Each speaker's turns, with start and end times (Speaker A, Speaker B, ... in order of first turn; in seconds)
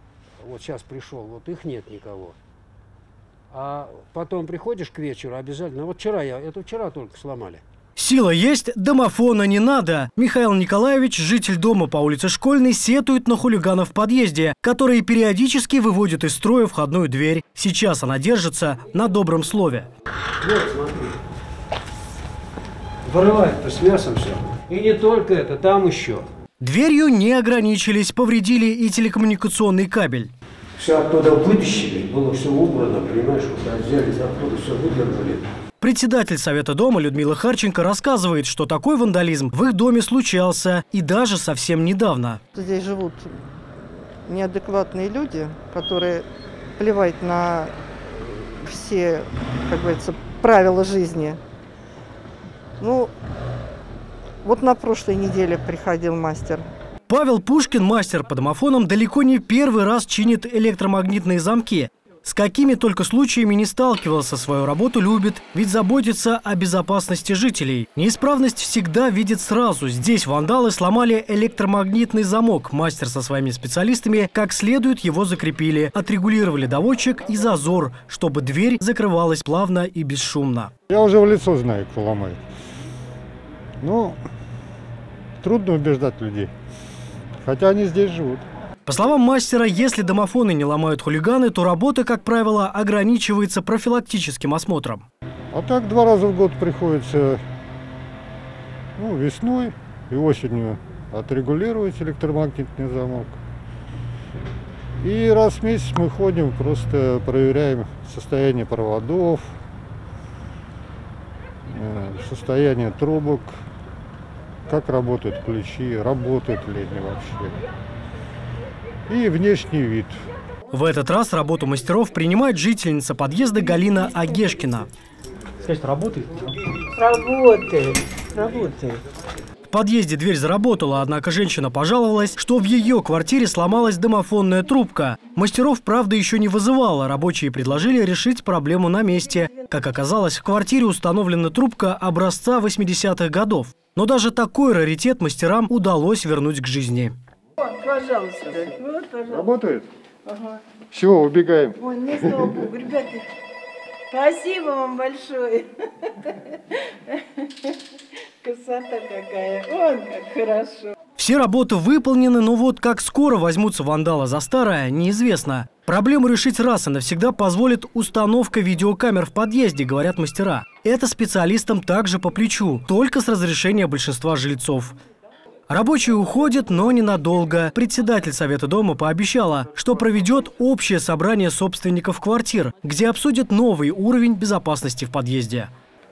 Speaker A: 0.4-2.4, 3.5-7.6, 20.4-21.2, 23.1-26.3, 30.8-35.5
Speaker B: 8.0-19.9, 26.6-30.3, 35.8-42.4, 57.1-80.7, 88.9-95.0, 120.7-124.9, 125.6-126.6, 129.7-147.2, 161.2-175.0, 175.7-185.7
Speaker C: 42.5-43.4, 44.2-51.4, 52.8-53.1, 54.4-56.6
Speaker D: 80.9-82.4, 83.8-84.2, 85.4-86.5, 87.4-88.5, 95.5-97.4, 99.0-103.4, 105.0-109.5, 111.7-113.5, 114.7-117.6, 119.1-120.2, 149.3-149.9, 150.9-152.5
Speaker E: 127.0-129.0, 147.6-149.5, 150.3-150.6, 151.8-153.3, 154.1-157.7, 158.4-160.9